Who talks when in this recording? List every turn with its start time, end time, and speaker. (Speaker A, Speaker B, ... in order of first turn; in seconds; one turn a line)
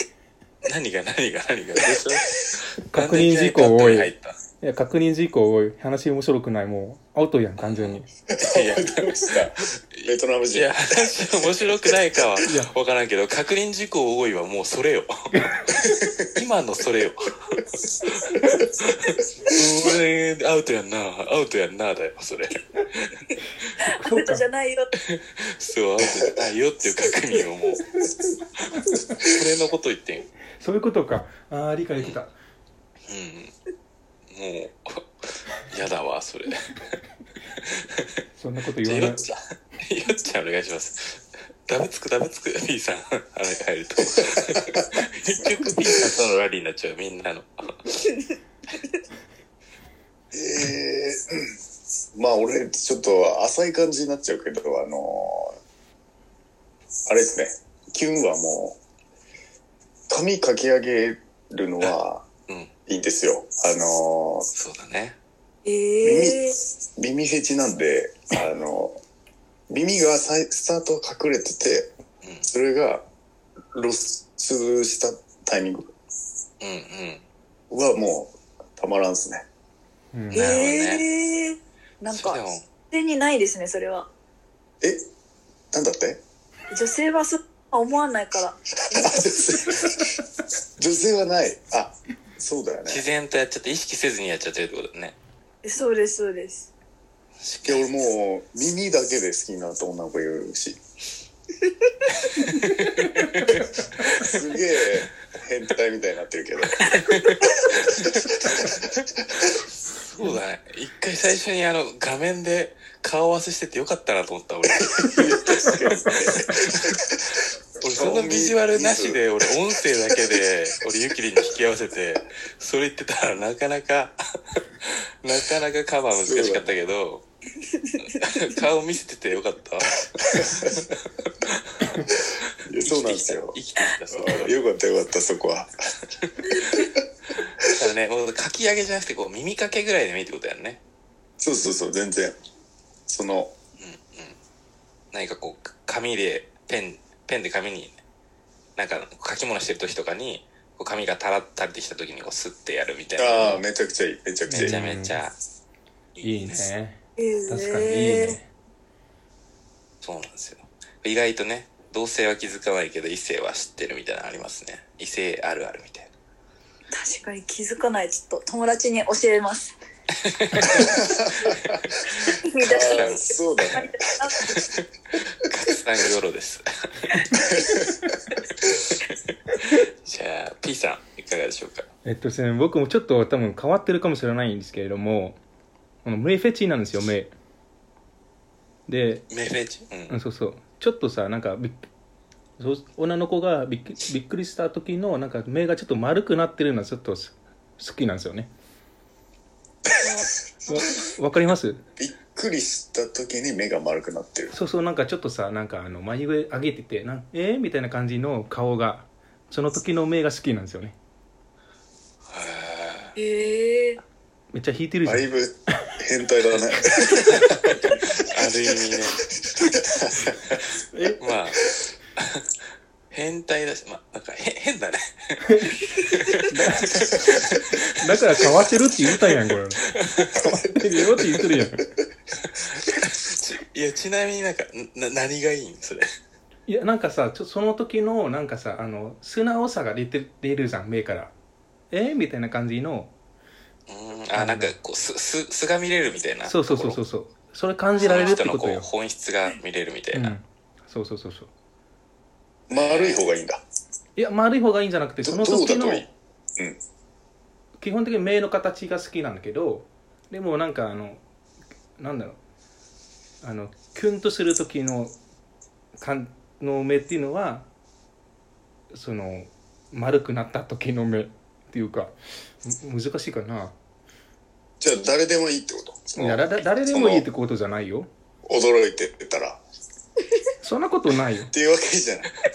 Speaker A: 0.7-4.4
Speaker B: 2.9-8.1
Speaker A: 7.6-15.1
Speaker C: 8.3-10.8
Speaker B: 12.4-12.7
Speaker C: 15.7-16.2
Speaker A: 16.3-17.4
Speaker A: 18.0-23.3
Speaker C: 18.3-18.7
Speaker D: 23.8-24.9
Speaker B: 23.9-24.4
Speaker A: 25.1-27.8
Speaker A: 29.2-30.2
Speaker B: 30.6-32.3
Speaker A: 33.1-33.5
Speaker A: 34.3-37.0
Speaker A: 37.6-38.1
Speaker B: 38.3-39.2
Speaker A: 38.8-48.1
Speaker C: 50.3-51.5
Speaker C: 52.1-55.6
Speaker C: 57.1-58.8
Speaker C: 60.1-62.2
Speaker C: 62.9-64.5
Speaker A: 64.5-65.2
Speaker D: 65.6-66.6
Speaker C: 66.0-69.0
Speaker C: 69.7-71.9
Speaker C: 72.5-73.0
Speaker C: 73.7-75.9
Speaker A: 76.6-77.2
Speaker C: 77.7-79.4
Speaker B: 80.1-80.5
Speaker D: 80.3-84.1
Speaker A: 80.3-81.0
Speaker A: 82.1-82.7
Speaker C: 85.7-86.2
Speaker D: 86.7-89.3
Speaker C: 88.9-90.2
Speaker C: 90.8-93.0
Speaker A: 92.9-95.2
Speaker D: 95.6-96.7
Speaker A: 97.4-97.9
Speaker C: 97.7-100.8
Speaker A: 102.2-104.2
Speaker C: 104.0-106.9
Speaker A: 106.8-108.1
Speaker C: 108.0-109.5
Speaker A: 109.9-117.0
Speaker C: 115.2-116.5
Speaker A: 117.8-124.2
Speaker C: 117.9-119.3
Speaker A: 124.8-127.2
Speaker C: 126.2-126.7
Speaker D: 127.6-128.0
Speaker A: 128.0-131.0
Speaker C: 130.3-130.8
Speaker A: 131.5-131.8
Speaker C: 132.7-133.6
Speaker A: 132.8-134.6
Speaker C: 134.1-135.7
Speaker A: 136.2-136.8
Speaker C: 136.6-137.0
Speaker A: 137.6-140.8
Speaker C: 141.4-142.4
Speaker C: 143.1-143.5
Speaker A: 143.8-144.4
Speaker A: 145.1-148.0
Speaker A: 148.8-153.6
Speaker C: 153.2-154.8
Speaker B: 154.5-155.2
Speaker A: 154.5-155.3
Speaker A: 156.1-156.7
Speaker B: 156.2-158.5
Speaker D: 157.2-158.4
Speaker A: 160.0-166.1
Speaker D: 166.9-169.7
Speaker A: 170.3-170.9
Speaker C: 170.8-171.7
Speaker D: 172.3-174.5
Speaker C: 172.6-174.0
Speaker A: 172.8-173.3
Speaker A: 175.4-177.2
Speaker C: 177.4-178.1
Speaker A: 178.9-181.8
Speaker B: 182.0-185.4
Speaker B: 186.0-187.3
Speaker B: 188.9-189.2
Speaker A: 189.3-190.2
Speaker B: 190.1-191.8
Speaker B: 192.6-198.5
Speaker D: 200.0-201.0
Speaker B: 200.7-201.8
Speaker C: 202.0-204.6
Speaker B: 204.5-210.9
Speaker A: 212.3-213.1
Speaker D: 213.2-214.0
Speaker B: 214.5-215.3
Speaker C: 215.0-218.0
Speaker A: 218.2-219.2
Speaker C: 219.4-220.6
Speaker B: 220.9-221.2
Speaker A: 221.2-221.6
Speaker A: 222.2-222.4
Speaker A: 223.1-227.7
Speaker B: 225.4-225.8
Speaker B: 226.4-227.2
Speaker B: 227.9-229.8
Speaker A: 229.9-230.3
Speaker C: 230.4-231.6
Speaker B: 230.4-231.8
Speaker A: 232.5-236.1
Speaker B: 236.7-241.3
Speaker B: 241.9-243.1
Speaker A: 243.9-247.0
Speaker B: 244.3-244.7
Speaker B: 246.4-248.9
Speaker A: 248.0-250.3
Speaker B: 250.1-251.5
Speaker C: 252.7-253.6
Speaker A: 252.7-253.3
Speaker B: 254.2-256.1
Speaker C: 255.2-256.8
Speaker B: 257.8-261.2
Speaker B: 262.0-262.4
Speaker B: 263.4-265.1
Speaker B: 266.0-267.7
Speaker B: 268.9-273.7
Speaker C: 274.8-277.3
Speaker B: 276.1-278.1
Speaker C: 278.4-279.6
Speaker B: 280.6-281.5
Speaker C: 281.5-282.4